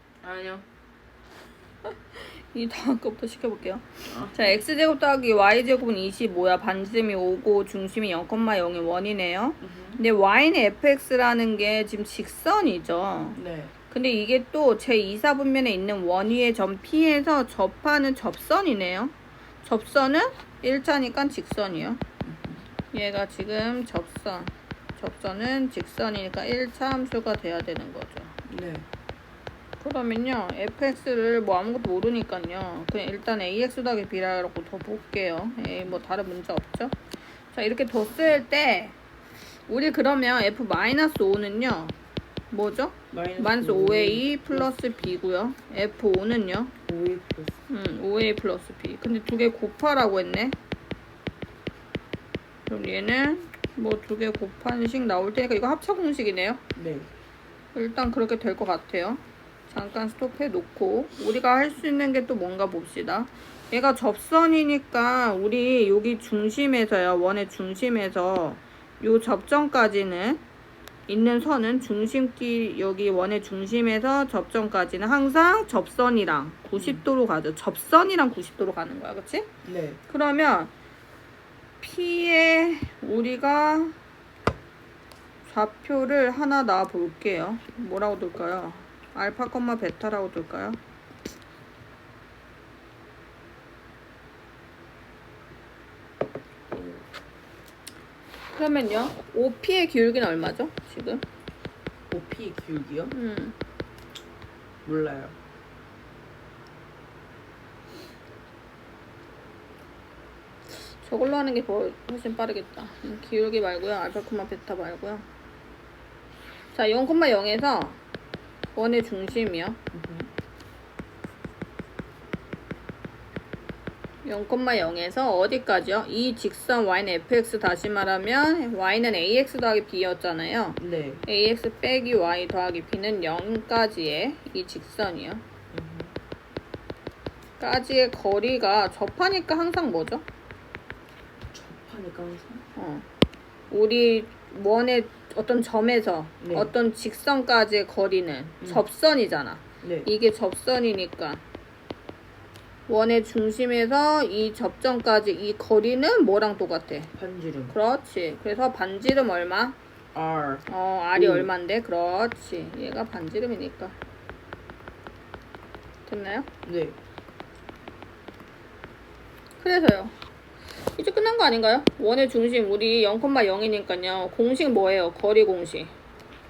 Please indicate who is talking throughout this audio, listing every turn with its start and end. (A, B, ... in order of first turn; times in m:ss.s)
0:00.2-0:00.6 A
0:01.8-0:13.4 B
0:04.1-0:04.4 A
0:09.6-0:10.0 A
0:13.4-0:13.7 A
0:13.9-0:22.0 B
0:22.2-0:22.6 A
0:22.9-0:28.3 B
0:28.5-0:28.8 A
0:29.8-0:37.0 B
0:37.5-0:39.0 B
0:39.7-0:42.0 B
0:42.5-0:46.7 B
0:43.1-0:44.7 A
0:46.9-0:47.6 A
0:47.7-0:50.5 B
0:52.7-0:56.6 B
0:56.8-0:57.1 A
0:57.7-1:10.4 B
1:11.1-1:19.5 B
1:19.6-1:20.0 A
1:20.1-1:20.7 B
1:21.8-1:24.0 B
1:25.4-1:30.8 B
1:36.7-1:37.0 A
1:38.5-1:41.2 B
1:42.1-1:43.1 A
1:43.1-1:43.6 B
1:44.8-1:45.3 A
1:50.8-1:55.2 B
1:56.7-1:58.0 B
1:58.7-1:59.8 B
1:59.9-2:00.3 A
2:04.2-2:15.4 B
2:10.8-2:11.2 A
2:15.7-2:16.1 A
2:17.6-2:20.2 B
2:21.5-2:22.6 A
2:22.8-2:23.0 B
2:23.7-2:31.4 B
2:26.4-2:26.7 A
2:29.8-2:30.1 A
2:32.9-2:37.1 B
2:37.1-2:37.8 A
2:37.7-2:39.8 B
2:40.1-2:41.5 A
2:40.7-2:43.9 B
2:46.0-2:46.5 B
2:46.6-2:47.0 A
2:49.6-2:50.1 B
2:50.9-2:55.9 B